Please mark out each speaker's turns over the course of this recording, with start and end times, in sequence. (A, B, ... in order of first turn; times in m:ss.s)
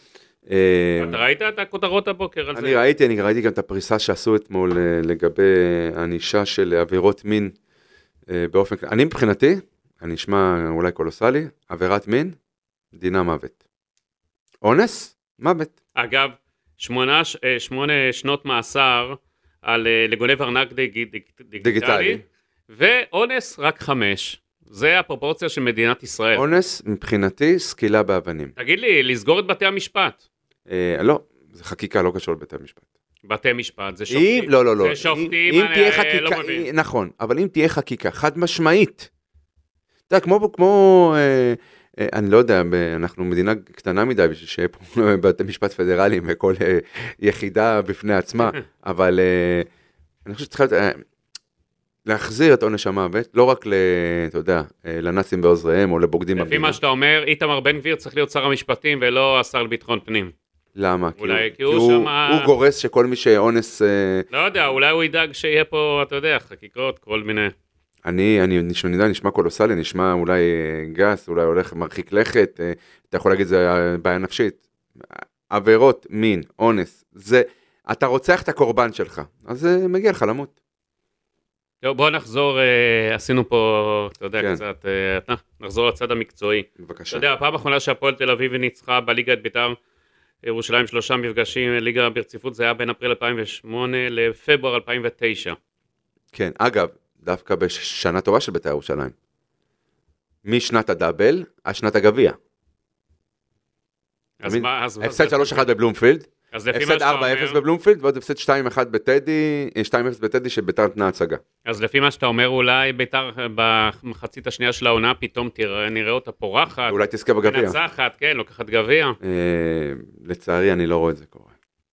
0:00.5-0:01.2 A
0:01.0-0:02.8 B
0:02.5-0:07.5 A
0:08.3-0:12.4 A
0:12.9-0:13.6 A
0:14.6-0:15.7 A
0:16.0-0:26.4 B
0:21.6-0:22.2 A
0:26.3-0:28.5 A
0:28.6-0:30.2 B
0:30.7-0:32.8 A
0:33.2-0:36.7 B
0:34.1-0:39.1 A
0:40.1-0:49.7 A
0:50.2-0:51.0 A
0:52.0-0:56.8 A
0:56.4-1:00.3 B
1:00.8-1:04.2 A
1:01.2-1:02.5 B
1:04.3-1:07.5 B
1:08.0-1:20.5 A
1:21.8-1:29.8 B
1:26.8-1:27.2 A
1:30.4-1:35.6 B
1:36.3-1:39.1 A
1:40.4-1:42.4 A
1:44.4-1:45.7 B
1:44.4-1:51.4 A
1:46.5-1:47.6 B
1:51.6-1:59.2 B
1:56.9-1:57.8 A
1:59.2-2:01.5 A